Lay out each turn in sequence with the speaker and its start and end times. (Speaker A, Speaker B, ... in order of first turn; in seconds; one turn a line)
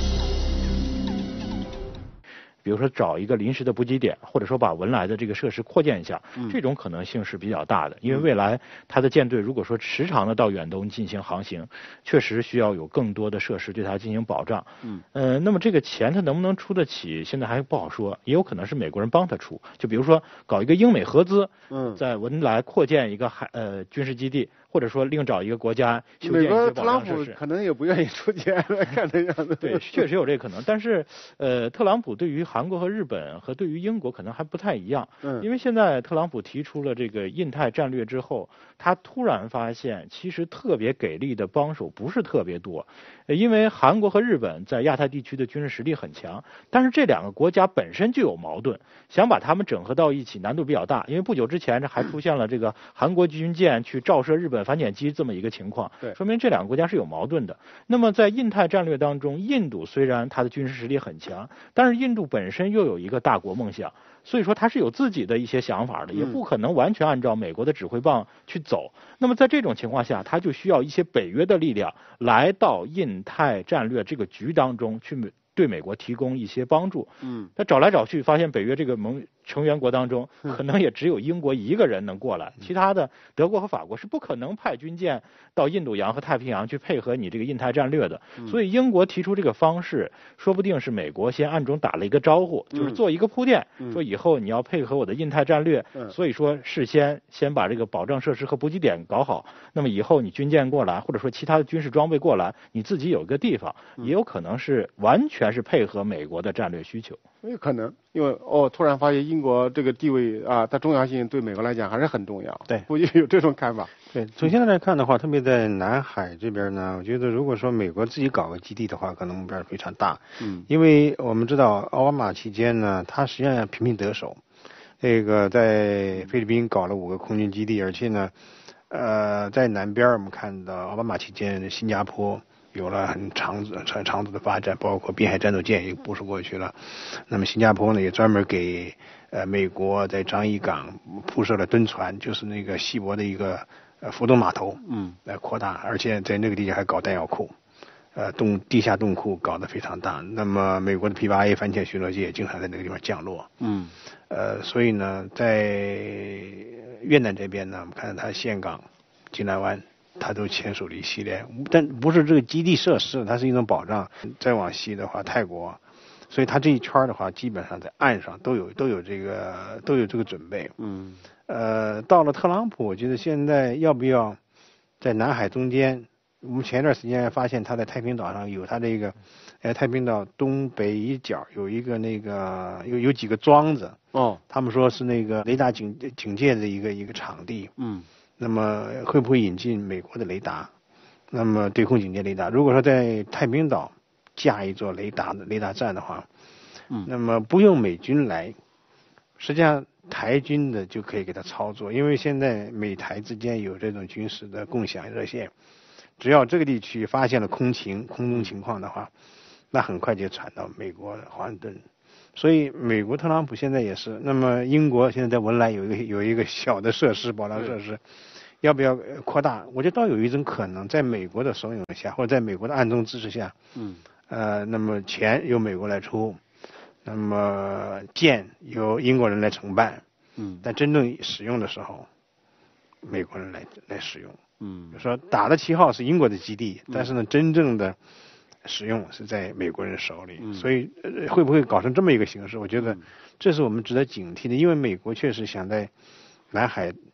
Speaker A: 2.6-27.4
Speaker B: 21.7-22.0
Speaker B: 26.2-30.1
Speaker A: 29.6-107.2
Speaker B: 35.2-35.5
Speaker B: 66.1-66.4
Speaker B: 77.2-77.5
Speaker B: 92.7-93.0
Speaker B: 107.4-113.9
Speaker C: 114.1-124.4
Speaker B: 120.4-120.7
Speaker C: 125.0-128.3
Speaker C: 128.9-147.5
Speaker B: 144.8-145.2
Speaker C: 148.1-153.5
Speaker B: 153.6-153.9
Speaker C: 154.3-170.7
Speaker B: 170.8-171.2
Speaker C: 171.5-174.4
Speaker C: 175.0-184.0
Speaker B: 184.1-184.4
Speaker C: 184.5-187.7
Speaker B: 187.8-188.1
Speaker C: 188.4-190.7
Speaker C: 191.3-196.3
Speaker C: 197.0-198.6
Speaker C: 199.4-205.5
Speaker C: 206.2-209.1
Speaker C: 209.7-211.8
Speaker C: 212.3-218.0
Speaker C: 218.6-223.5
Speaker B: 223.7-224.0
Speaker C: 224.3-226.4
Speaker C: 227.0-230.0
Speaker B: 230.4-230.6
Speaker C: 230.6-232.1
Speaker C: 233.0-234.4
Speaker B: 234.6-235.0
Speaker C: 234.9-238.0
Speaker C: 238.6-245.9
Speaker B: 240.4-240.7
Speaker B: 242.8-243.1
Speaker C: 246.5-247.0